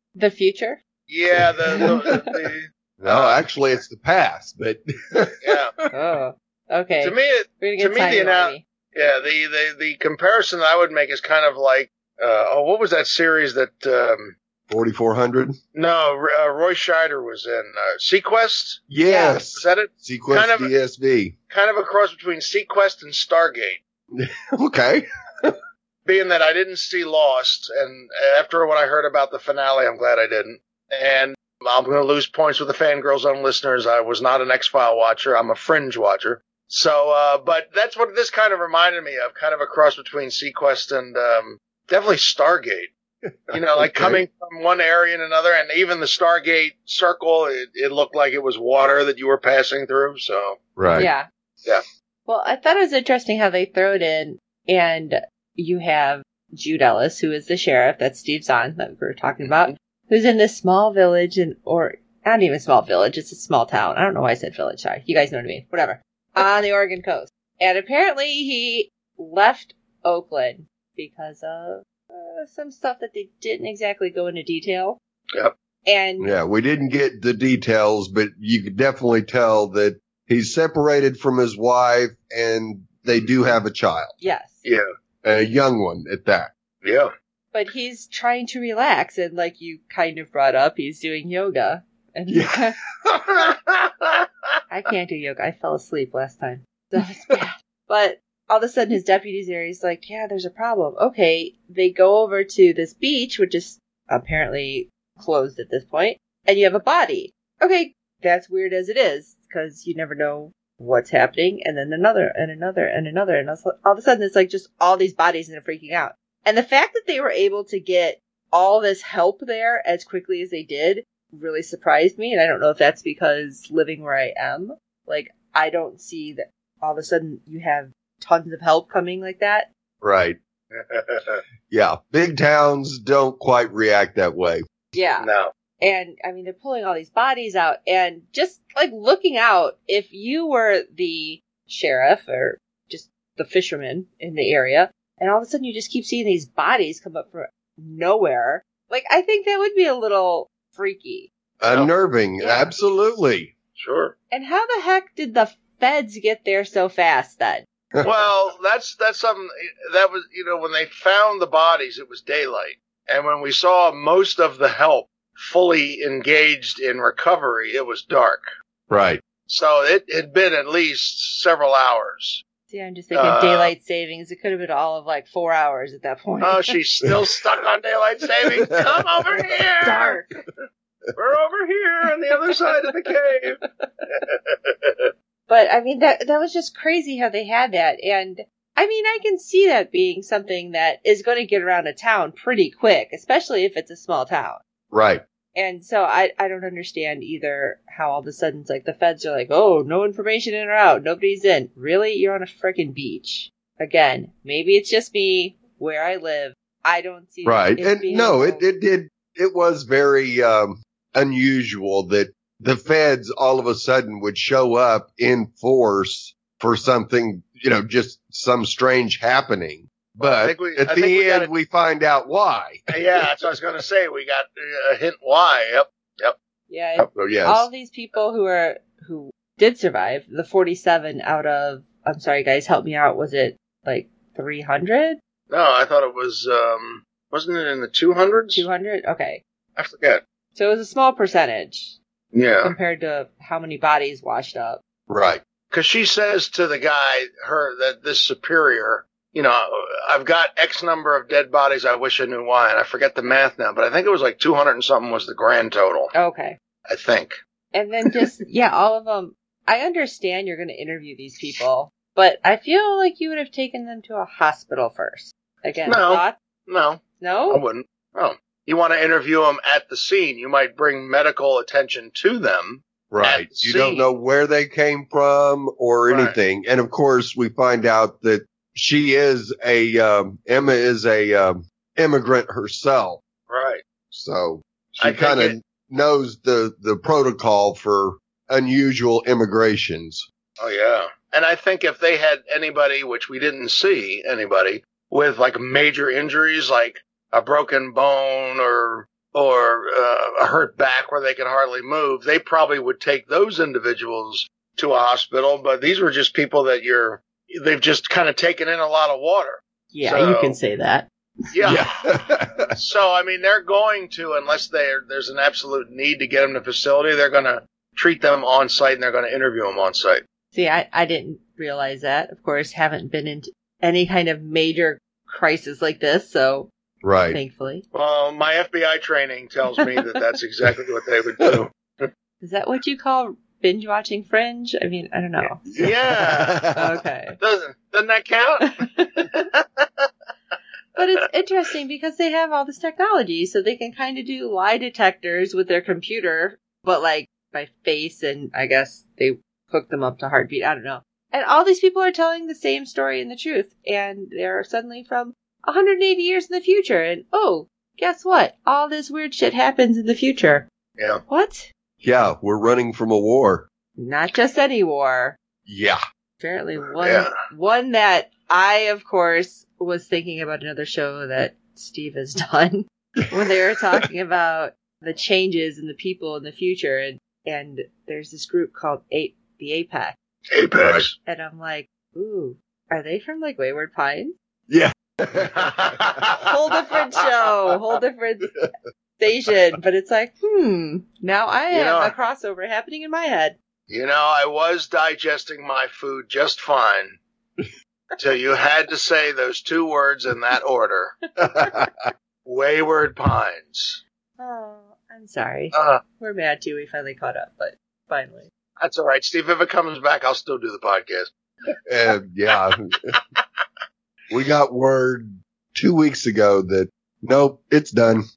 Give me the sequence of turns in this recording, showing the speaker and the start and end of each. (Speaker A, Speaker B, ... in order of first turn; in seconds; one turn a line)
Speaker A: 0.1-0.8
Speaker B: 1.1-3.4
Speaker C: 1.3-1.9
Speaker A: 1.8-2.1
Speaker C: 3.0-5.6
Speaker B: 5.4-5.7
Speaker A: 5.9-8.6
Speaker B: 7.0-14.3
Speaker C: 14.7-15.5
Speaker B: 15.7-18.9
Speaker C: 18.9-21.3
Speaker A: 19.1-19.4
Speaker B: 19.5-20.7
Speaker B: 21.5-23.8
Speaker C: 24.1-25.6
Speaker B: 26.1-42.9
Speaker C: 43.2-44.2
Speaker B: 43.5-50.6
Speaker C: 50.8-51.1
Speaker A: 51.0-51.3
Speaker A: 52.3-75.0
Speaker B: 59.4-59.7
Speaker A: 75.8-76.3
Speaker C: 76.2-84.1
Speaker A: 84.2-84.6
Speaker C: 85.2-86.5
Speaker B: 86.8-87.1
Speaker A: 87.5-92.8
Speaker C: 92.3-93.3
Speaker B: 93.5-94.2
Speaker A: 94.7-129.7
Speaker C: 130.0-130.4
Speaker B: 130.7-131.4
Speaker C: 131.7-134.6
Speaker A: 134.9-135.3
Speaker B: 135.2-135.5
Speaker A: 135.8-151.3
Speaker C: 151.6-153.5
Speaker A: 152.4-152.7
Speaker B: 153.8-154.1
Speaker A: 154.3-157.6
Speaker B: 158.0-168.4
Speaker C: 168.9-169.2
Speaker B: 169.4-172.4
Speaker A: 172.7-176.7
Speaker B: 173.1-173.7
Speaker B: 176.4-180.2
Speaker C: 178.8-179.1
Speaker A: 179.4-180.4
Speaker B: 181.1-183.6
Speaker B: 184.1-185.1
Speaker A: 185.5-194.6
Speaker C: 194.9-195.2
Speaker A: 195.5-208.6
Speaker C: 207.4-222.9
Speaker B: 220.2-221.5
Speaker B: 222.9-226.3
Speaker A: 226.7-235.2
Speaker C: 227.1-227.7
Speaker B: 235.5-238.7
Speaker A: 238.5-239.4
Speaker B: 239.8-240.2
Speaker A: 240.5-242.0
Speaker B: 242.3-242.7
Speaker A: 242.6-244.8
Speaker C: 245.1-245.4
Speaker B: 245.7-256.1
Speaker A: 256.1-256.6
Speaker B: 256.9-257.4
Speaker A: 257.7-266.3
Speaker B: 265.9-274.1
Speaker A: 267.2-267.6
Speaker C: 273.1-283.2
Speaker B: 276.1-276.4
Speaker B: 283.5-283.8
Speaker C: 284.1-290.2
Speaker B: 285.0-285.5
Speaker B: 290.6-310.6
Speaker A: 309.9-311.1
Speaker B: 311.5-311.8
Speaker C: 311.6-312.7
Speaker B: 312.7-320.2
Speaker A: 320.5-326.7
Speaker C: 327.0-327.4
Speaker A: 327.3-327.8
Speaker B: 327.9-332.1
Speaker A: 332.4-335.6
Speaker C: 335.7-336.9
Speaker B: 335.8-336.6
Speaker A: 336.7-337.4
Speaker B: 337.4-340.1
Speaker A: 338.6-339.3
Speaker A: 340.9-360.6
Speaker A: 361.3-361.7
Speaker C: 362.0-363.6
Speaker A: 364.0-365.4
Speaker C: 365.7-366.0
Speaker A: 366.4-380.1
Speaker B: 367.0-367.3
Speaker B: 380.5-381.1
Speaker A: 381.2-384.3
Speaker C: 384.7-386.2
Speaker B: 385.4-386.5
Speaker A: 386.4-388.5
Speaker A: 389.2-393.6
Speaker B: 391.7-392.1
Speaker B: 393.9-397.2
Speaker B: 398.2-401.1
Speaker C: 401.4-401.9
Speaker B: 402.4-404.0
Speaker A: 404.4-408.5
Speaker B: 405.7-406.0
Speaker B: 408.8-411.3
Speaker C: 411.9-413.1
Speaker B: 413.1-413.4
Speaker C: 414.3-418.2